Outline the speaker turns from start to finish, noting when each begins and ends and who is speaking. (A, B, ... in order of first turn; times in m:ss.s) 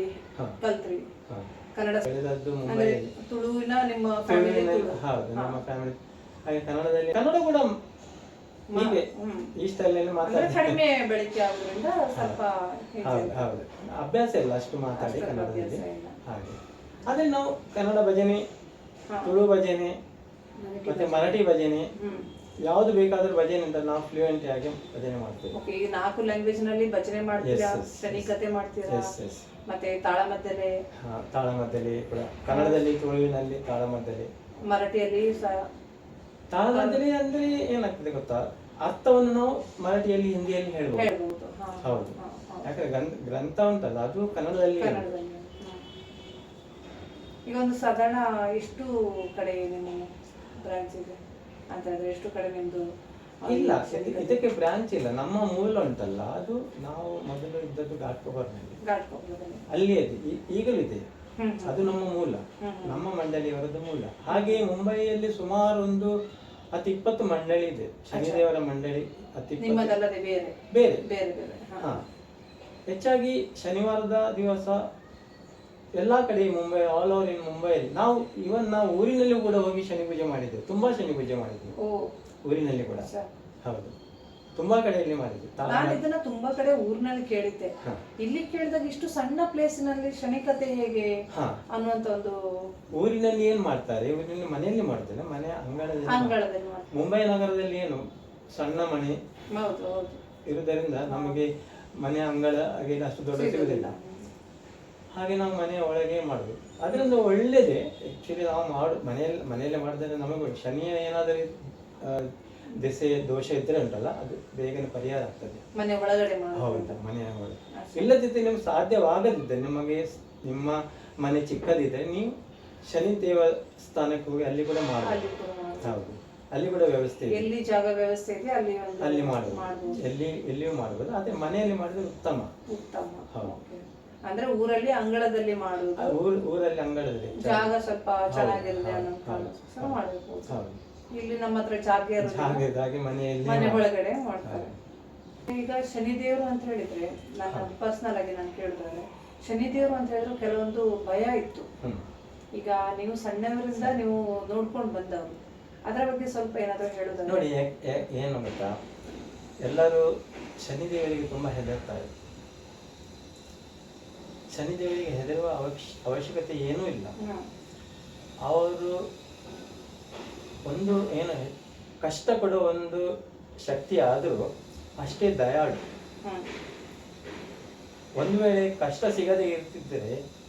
0:00.6-0:01.1 A
0:01.8-0:02.1 A
0:02.0-0:03.1 B
0:02.7-0:05.6 A
0:04.3-0:07.7 B
0:08.7-0:09.5 A
0:08.7-0:09.0 B
0:09.6-0:10.8 B
0:10.2-0:13.5 A
0:12.2-0:12.4 B
0:13.0-0:18.4 B
0:15.0-0:16.2 A
0:19.2-0:20.0 B
0:20.6-0:21.4 A
0:20.8-0:21.9 B
0:22.0-0:22.3 A
0:22.7-0:25.5 B
0:25.6-0:29.1 A
0:27.4-0:28.3 B
0:28.9-0:29.4 B
0:29.7-0:30.7 A
0:31.0-0:34.3 B
0:32.5-0:32.8 A
0:34.7-0:35.7 A
0:36.5-0:41.1 B
0:36.7-0:37.0 A
0:41.0-0:42.7 A
0:41.8-0:45.1 B
0:44.8-0:45.8 A
0:47.5-0:50.1 A
0:50.6-0:51.2 A
0:51.7-0:52.9 A
0:53.4-0:54.4 A
0:53.5-0:58.8 B
0:58.8-0:59.6 A
0:59.7-1:01.0 B
1:01.4-1:01.8 A
1:01.6-1:06.1 B
1:02.6-1:03.0 A
1:04.3-1:04.6 A
1:06.7-1:10.0 B
1:08.1-1:08.4 A
1:09.6-1:12.0 A
1:10.7-1:11.0 B
1:12.9-1:14.8 B
1:16.0-1:21.8 B
1:21.8-1:22.1 A
1:22.4-1:23.1 B
1:23.0-1:23.3 A
1:23.6-1:23.9 B
1:24.6-1:26.0 B
1:25.6-1:31.1 A
1:31.3-1:31.6 B
1:31.7-1:32.4 A
1:33.0-1:36.4 B
1:36.1-1:36.9 A
1:36.9-1:39.2 B
1:39.5-1:40.2 A
1:40.5-1:43.9 B
1:41.1-1:41.4 A
1:43.3-1:44.3 A
1:45.2-1:55.6 B
1:55.8-1:57.0 A
1:56.6-2:02.3 B
1:57.7-1:58.1 A
2:02.9-2:05.3 B
2:05.0-2:06.0 A
2:05.8-2:07.5 B
2:07.3-2:10.0 A
2:09.0-2:12.5 B
2:12.7-2:16.2 A
2:16.0-2:17.7 B
2:17.4-2:20.6 A
2:18.3-2:20.8 B
2:21.1-2:22.6 A
2:22.2-2:23.8 B
2:23.4-2:24.7 A
2:24.4-2:24.8 B
2:25.5-2:31.7 A
2:32.6-2:37.4 A
2:37.3-2:38.7 B
2:39.6-2:40.0 B
2:40.6-2:42.1 B
2:44.5-2:47.1 B
2:47.2-2:47.5 A
2:48.5-2:48.9 B
2:50.7-2:53.0 B
2:53.6-2:54.4 B
2:55.0-2:55.8 B
2:56.2-2:56.5 A
2:58.2-3:00.2 B